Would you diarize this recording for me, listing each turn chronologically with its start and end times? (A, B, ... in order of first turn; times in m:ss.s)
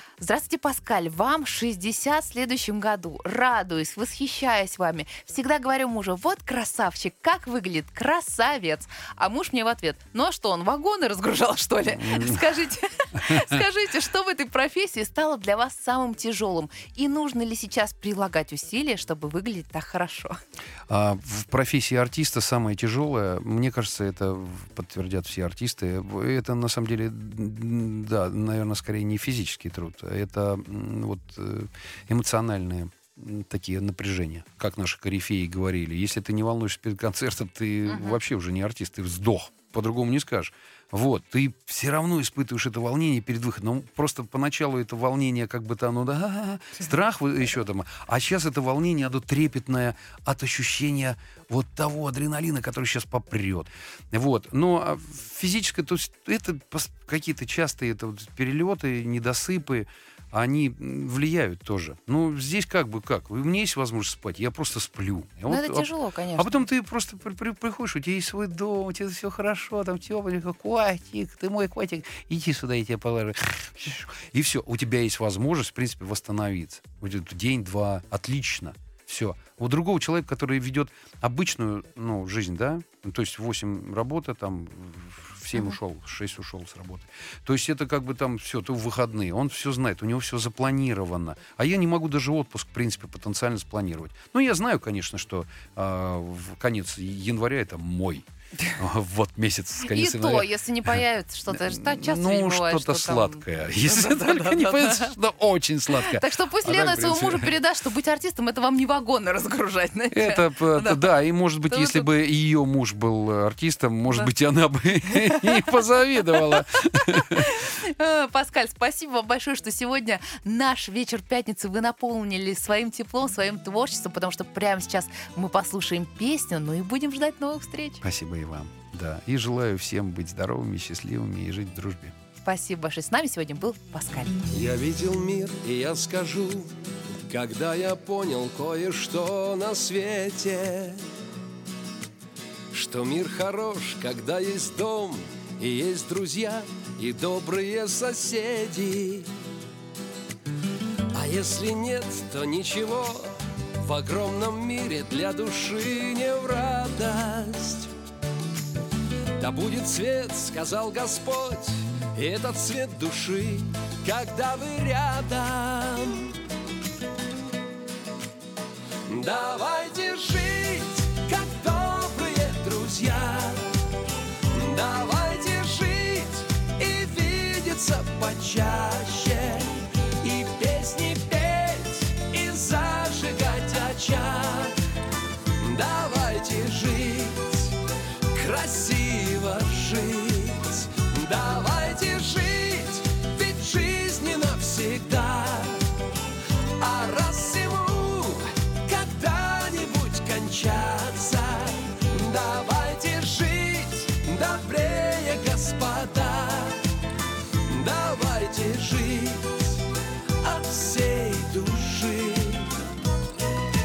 0:00.2-0:20.4 A
0:11.9-0:12.5 B
0:13.2-0:13.6 B
0:20.9-1:38.3 B
0:37.9-0:38.2 A
1:05.5-1:06.5 A
1:38.8-1:47.6 B
1:39.8-1:45.1 A
1:45.9-1:51.1 A
1:50.1-1:57.6 B
1:51.7-1:52.1 A
1:57.0-2:08.0 A
2:08.0-2:12.1 B
2:12.4-2:14.4 A
2:14.5-2:21.1 C
2:22.7-2:29.3 C
2:31.1-2:37.9 C
2:39.4-2:46.4 C
2:49.1-2:53.8 C
2:54.5-3:04.8 C
3:05.6-3:07.8 C
3:08.3-3:15.9 C
3:16.8-3:26.9 C
3:27.6-3:29.8 C
3:30.4-3:32.8 C